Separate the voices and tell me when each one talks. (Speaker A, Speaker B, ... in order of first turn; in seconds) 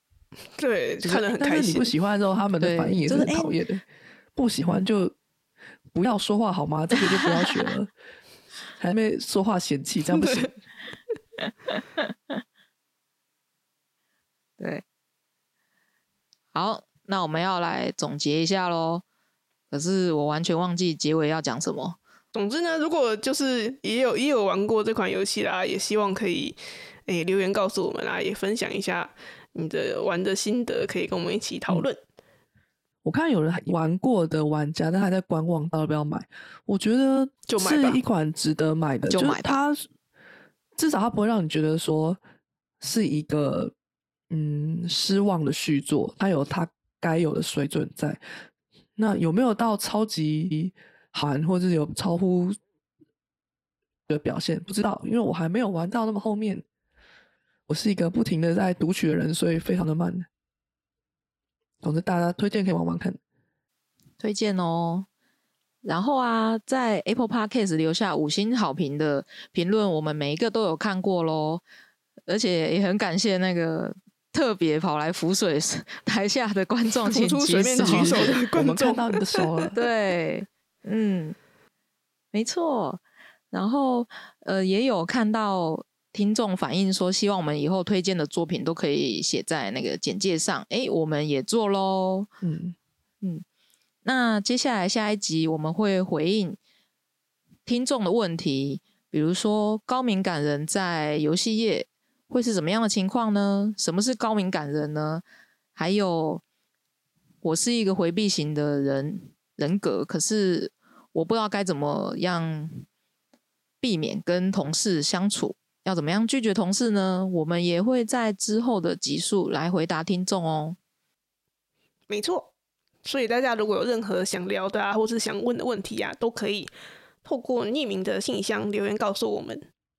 Speaker A: 0.6-1.9, 10.1-10.5, 22.3-32.0, 37.5-38.0, 77.1-79.5, 122.1-122.5, 123.0-126.7, 127.2-129.7
Speaker B: 1.1-5.1, 5.9-7.9, 8.8-10.5, 33.0-39.8, 40.8-42.2, 42.8-43.7, 44.3-48.2, 49.0-52.5, 54.1-56.6, 57.7-60.3, 61.8-63.2, 77.8-79.8, 92.4-92.8
Speaker C: 2.6-3.5, 7.2-7.5, 11.4-12.4, 16.5-19.0, 19.7-22.0, 39.1-39.6, 64.2-65.1, 65.8-71.6, 72.3-78.4, 79.7-81.4, 82.3-92.3, 94.0-96.6, 97.7-105.2, 105.8-106.4, 107.4-112.8, 113.8-120.8